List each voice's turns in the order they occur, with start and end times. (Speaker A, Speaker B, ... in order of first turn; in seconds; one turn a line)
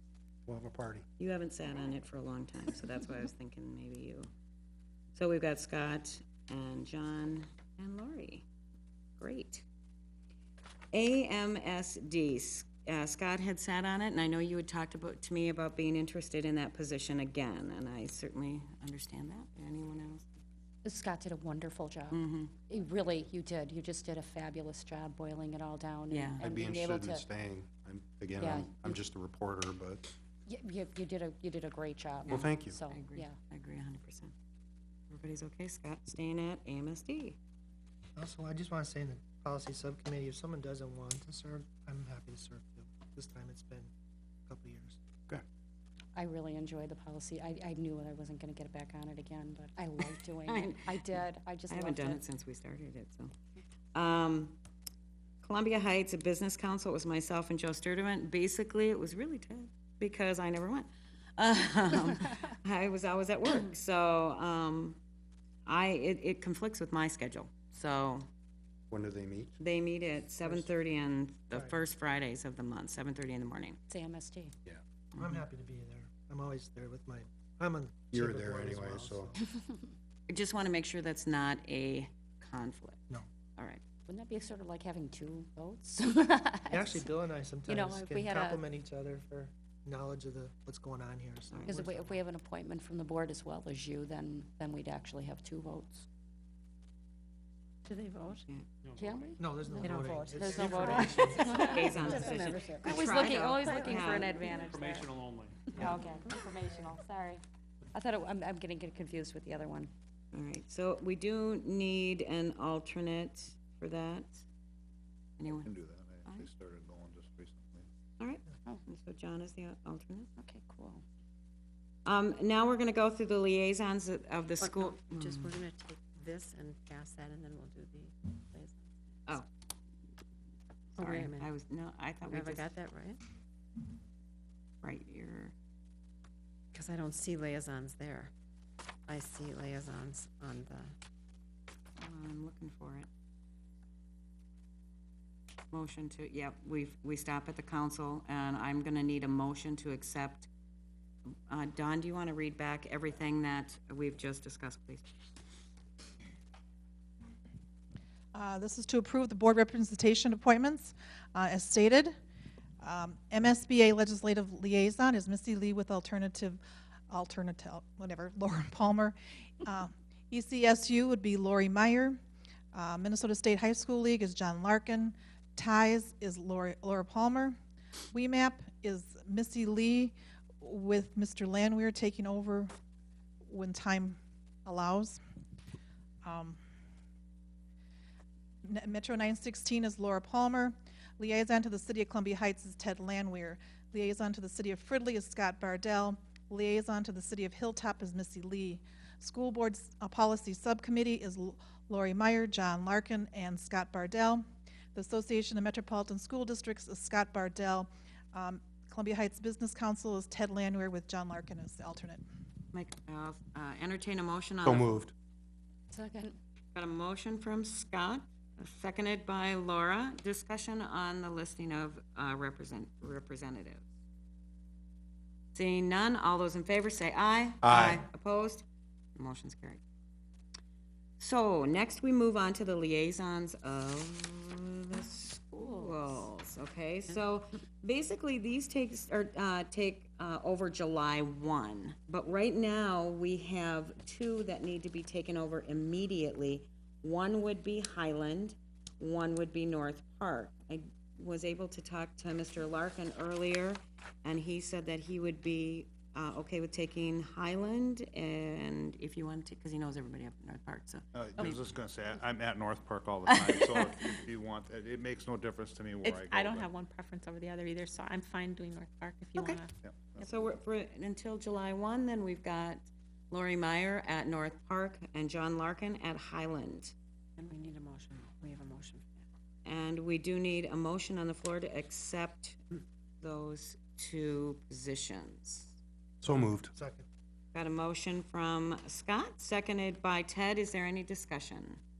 Speaker A: 0.5-1.0
Speaker B: 1.2-4.3
Speaker B: 5.1-8.4
Speaker B: 9.2-9.6
Speaker B: 10.9-20.4
Speaker C: 20.8-27.3
Speaker B: 22.1-22.5
Speaker B: 26.1-26.5
Speaker A: 26.4-30.1
Speaker C: 28.4-29.0
Speaker C: 30.5-33.3
Speaker B: 32.2-34.3
Speaker A: 32.3-32.8
Speaker B: 35.1-37.4
Speaker D: 38.1-43.9
Speaker D: 44.5-45.0
Speaker C: 46.1-52.2
Speaker B: 50.0-53.3
Speaker B: 53.9-54.6
Speaker B: 55.4-65.0
Speaker B: 65.7-68.3
Speaker A: 68.9-69.5
Speaker B: 69.6-73.8
Speaker D: 71.5-71.8
Speaker C: 73.9-74.5
Speaker B: 75.1-75.4
Speaker D: 75.2-79.3
Speaker A: 78.1-79.3
Speaker B: 80.3-83.0
Speaker B: 83.5-83.8
Speaker C: 84.1-87.1
Speaker D: 86.7-92.2
Speaker C: 87.7-88.6
Speaker B: 91.5-91.8
Speaker C: 91.7-96.0
Speaker E: 97.9-98.4
Speaker C: 99.0-105.1
Speaker D: 99.4-102.3
Speaker E: 99.8-102.5
Speaker F: 100.5-101.1
Speaker B: 101.6-104.4
Speaker F: 104.5-106.0
Speaker C: 105.7-107.4
Speaker E: 105.9-106.3
Speaker C: 107.9-109.9
Speaker B: 110.3-114.4
Speaker B: 115.4-115.7
Speaker G: 115.6-117.8
Speaker B: 118.2-120.3
Speaker C: 120.4-121.0
Speaker B: 122.0-125.5
Speaker E: 124.6-129.4
Speaker E: 130.9-131.5
Speaker B: 131.0-132.7
Speaker E: 132.2-133.2
Speaker B: 134.8-135.5
Speaker E: 136.7-138.3
Speaker E: 139.1-140.9
Speaker B: 142.0-143.1
Speaker B: 145.7-150.5
Speaker B: 151.5-155.1
Speaker H: 158.3-162.1
Speaker H: 162.8-172.2
Speaker H: 172.7-177.6
Speaker H: 178.1-182.7
Speaker H: 183.5-185.2
Speaker H: 186.2-186.6
Speaker H: 188.7-204.4
Speaker H: 204.9-212.2
Speaker B: 212.7-214.9
Speaker A: 214.6-215.1
Speaker C: 215.9-216.4
Speaker B: 216.7-223.9
Speaker B: 225.5-229.8
Speaker A: 227.6-228.0
Speaker B: 231.2-261.6
Speaker E: 235.6-236.1
Speaker G: 261.1-266.7
Speaker B: 263.3-264.1
Speaker I: 266.0-269.6
Speaker E: 269.0-269.7
Speaker G: 269.8-270.3
Speaker B: 270.2-276.9
Speaker E: 277.4-279.2
Speaker B: 279.6-285.7
Speaker A: 286.2-286.7
Speaker D: 286.7-287.1
Speaker B: 287.5-291.8